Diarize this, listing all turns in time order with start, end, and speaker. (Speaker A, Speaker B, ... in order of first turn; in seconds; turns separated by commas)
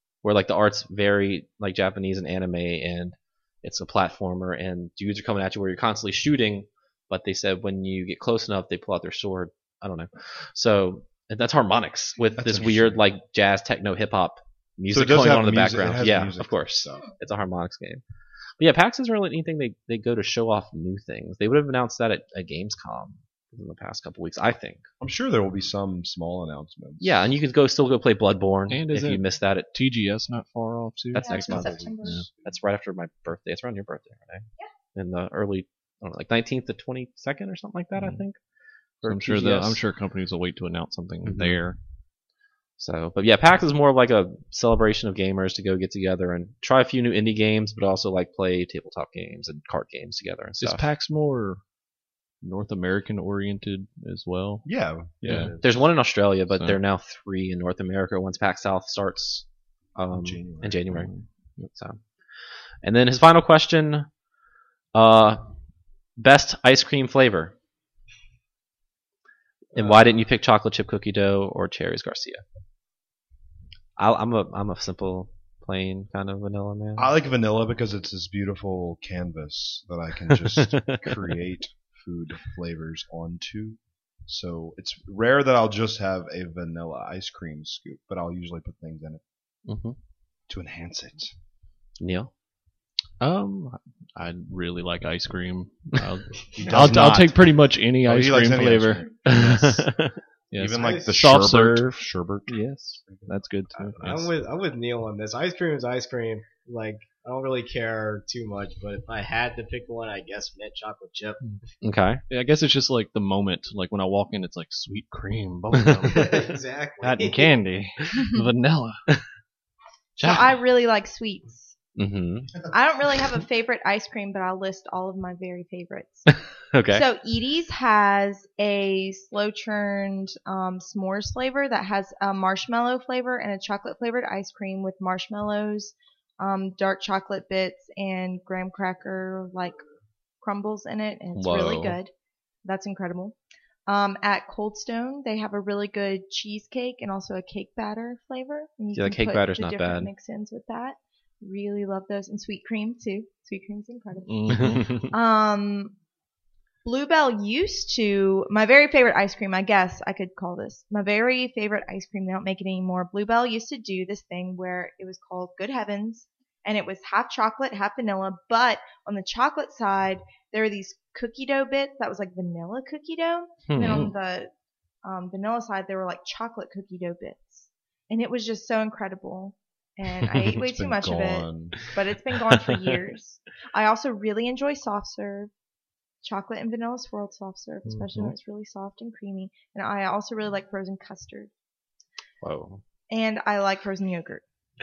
Speaker A: 0.2-18.0, Speaker B: 12.4-13.0, Speaker B: 14.9-17.0, Speaker A: 18.6-24.8, Speaker B: 25.0-27.2, Speaker A: 27.0-29.7, Speaker C: 28.7-32.2, Speaker D: 31.1-32.2, Speaker A: 31.1-38.4, Speaker B: 31.4-32.5, Speaker C: 38.0-38.2, Speaker A: 39.0-39.8, Speaker C: 39.0-41.8, Speaker A: 41.2-41.6, Speaker A: 42.8-50.8, Speaker C: 50.6-51.6, Speaker C: 52.4-54.6, Speaker B: 54.6-55.5, Speaker C: 55.2-55.5, Speaker E: 55.3-55.8, Speaker A: 55.6-59.4, Speaker C: 56.5-56.8, Speaker A: 60.0-61.1, Speaker B: 60.1-61.0, Speaker C: 60.9-61.7, Speaker A: 61.7-62.0, Speaker A: 62.8-64.1, Speaker A: 64.9-65.4, Speaker A: 66.2-67.5, Speaker A: 69.7-72.4, Speaker A: 74.0-77.1, Speaker B: 77.0-89.2, Speaker A: 80.4-81.3, Speaker A: 89.7-90.0, Speaker B: 90.5-91.3, Speaker A: 92.0-92.3, Speaker C: 93.2-99.9, Speaker B: 96.5-97.3, Speaker A: 96.7-97.3, Speaker B: 98.0-99.2, Speaker A: 99.2-100.2, Speaker C: 100.5-104.3, Speaker B: 100.5-102.5, Speaker E: 100.8-101.1, Speaker B: 103.0-103.3, Speaker E: 104.0-111.4, Speaker A: 111.8-112.2, Speaker C: 112.3-119.0, Speaker A: 115.7-116.1, Speaker E: 116.0-117.6, Speaker A: 120.2-120.5, Speaker D: 120.2-121.8, Speaker A: 122.0-122.7, Speaker D: 122.7-126.3, Speaker A: 126.7-127.0, Speaker D: 126.9-139.8, Speaker D: 140.4-142.1, Speaker A: 141.3-142.0, Speaker D: 142.6-143.3, Speaker D: 143.9-155.9, Speaker A: 148.9-150.1, Speaker C: 154.3-155.1, Speaker D: 156.8-174.5, Speaker A: 173.7-174.1, Speaker D: 175.0-185.5, Speaker B: 180.5-181.8, Speaker A: 182.5-183.0, Speaker D: 186.2-191.5, Speaker C: 187.9-188.3, Speaker A: 192.4-192.8, Speaker D: 193.1-194.4